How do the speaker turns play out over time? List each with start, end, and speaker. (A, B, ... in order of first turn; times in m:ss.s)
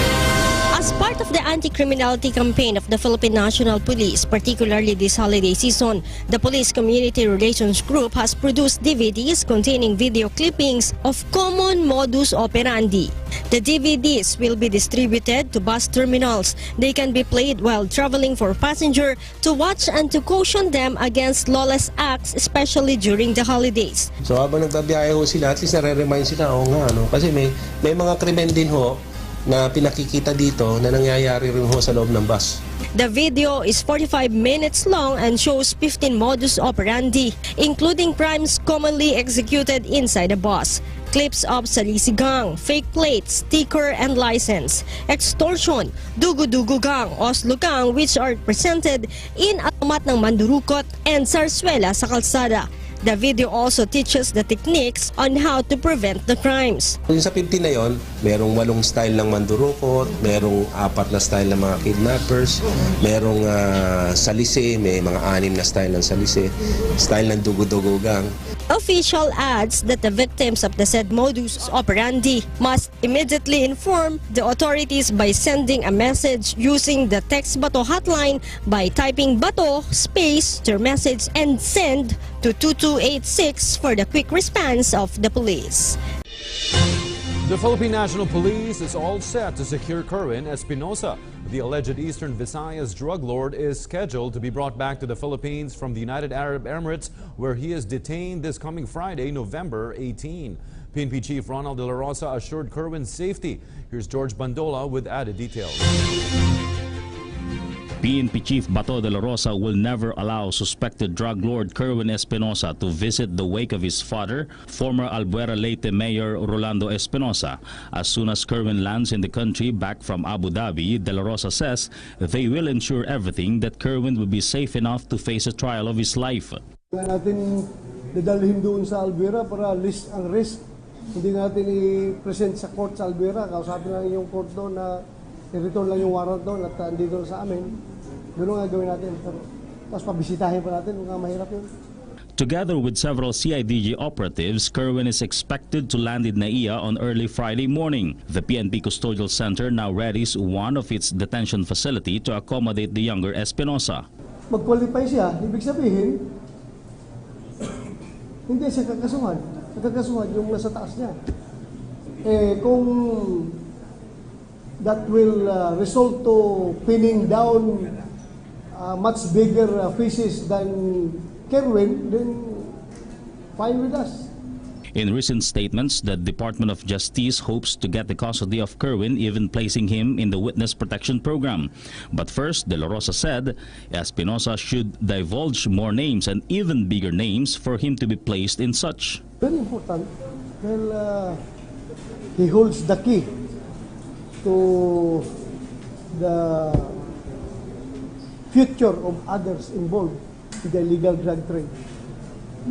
0:00.7-0:24.1 A
0:24.2-0:32.6 B
0:32.9-0:57.0 A
0:57.1-1:08.3 B
1:08.7-1:26.0 A
1:27.4-1:45.8 C
1:48.0-2:06.6 D
2:06.9-2:10.6 E
2:11.1-2:15.0 E
2:15.5-2:17.7 E
2:18.4-2:21.7 E
2:22.4-2:34.0 D
2:34.5-2:36.2 E
2:38.5-2:41.1 E
2:42.2-2:43.6 E
2:44.8-2:47.9 E
2:48.8-2:52.7 E
2:53.6-2:54.3 E
2:54.9-3:09.2 D
3:09.4-3:10.1 E
3:10.6-3:11.4 E
3:12.4-3:13.3 E
3:14.4-3:15.3 E
3:16.1-3:16.9 E
3:18.5-3:21.7 E